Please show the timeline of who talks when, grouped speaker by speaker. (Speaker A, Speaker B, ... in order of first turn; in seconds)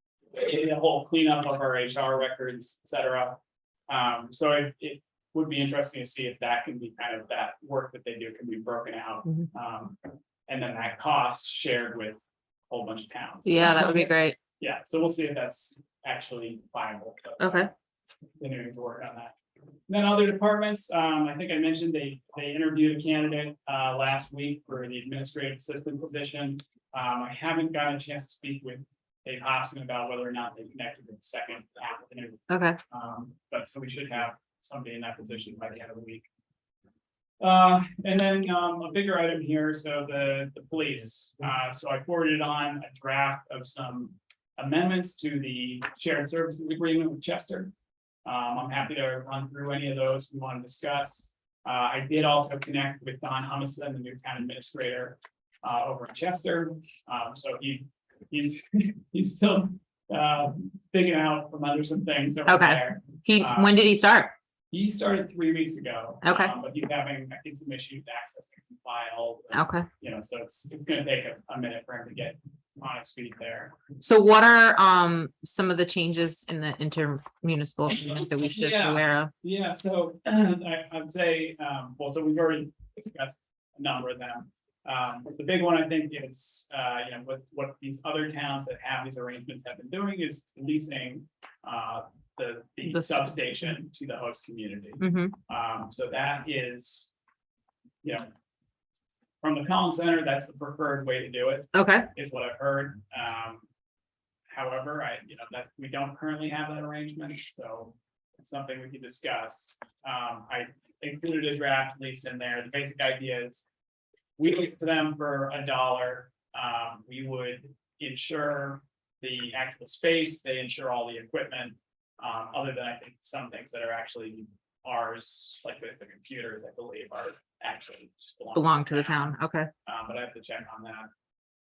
Speaker A: 0.3-17.7, 18.4-19.3, 19.9-36.3, 37.4-47.7, 48.2-63.7, 64.7-73.8, 77.9-97.1, 98.0-98.3, 99.4-103.7, 104.5-113.7, 114.4-131.1
Speaker B: 13.4-14.4, 17.4-17.7, 32.5-32.8, 62.5-64.3, 66.2-66.5, 69.5-69.9, 74.0-79.3, 92.8-93.3, 95.0-95.3, 101.7-102.1, 128.5-129.7